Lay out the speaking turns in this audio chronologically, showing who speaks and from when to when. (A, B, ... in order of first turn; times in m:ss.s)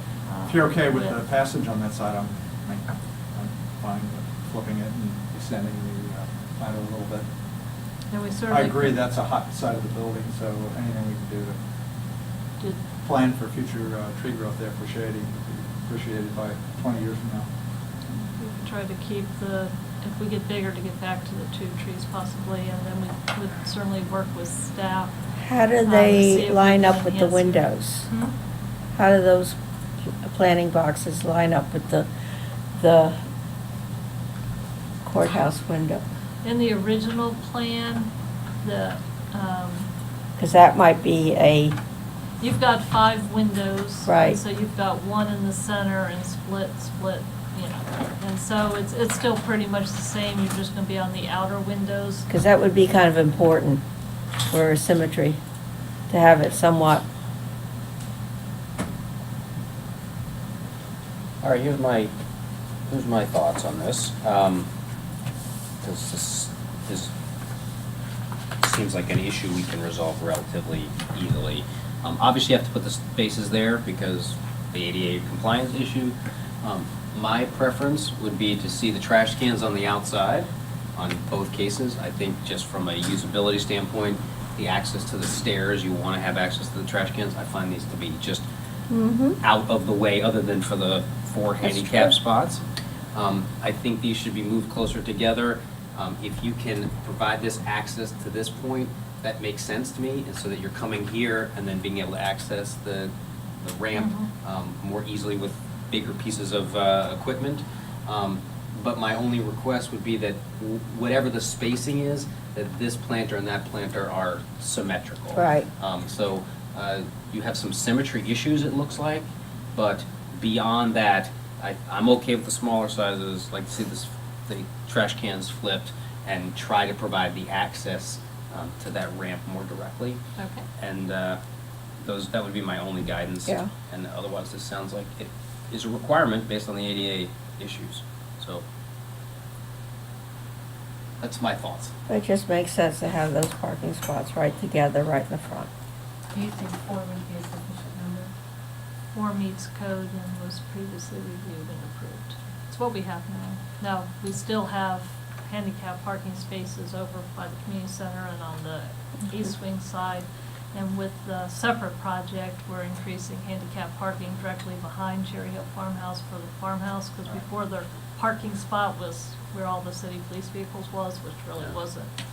0:00.2-0:01.2 A
0:00.5-0:07.3 B
0:08.1-0:09.0 A
0:08.5-0:11.6 B
0:12.6-0:12.8 A
0:13.0-0:17.5 B
0:18.4-0:25.1 A
0:25.4-0:28.1 C
0:25.8-0:28.4 A
0:29.0-0:29.6 C
0:30.2-0:32.1 C
0:32.8-0:33.2 C
0:35.0-0:36.0 C
0:36.4-0:39.9 A
0:40.4-0:41.8 C
0:42.4-0:52.3 A
0:44.1-0:44.4 C
0:52.3-0:53.8 C
0:54.5-0:55.4 C
0:56.1-0:57.0 C
1:01.4-1:02.1 D
1:02.9-1:04.7 D
1:05.8-1:07.1 D
1:08.6-1:28.5 D
1:28.9-1:29.4 C
1:29.4-1:32.6 D
1:31.6-1:32.2 C
1:33.1-2:10.2 D
1:44.0-1:44.3 A
1:55.3-1:55.7 C
2:10.4-2:10.7 A
2:10.8-2:11.4 D
2:12.0-2:18.6 D
2:21.2-2:21.9 D
2:22.1-2:25.7 C
2:26.3-2:28.3 E
2:29.1-2:52.1 A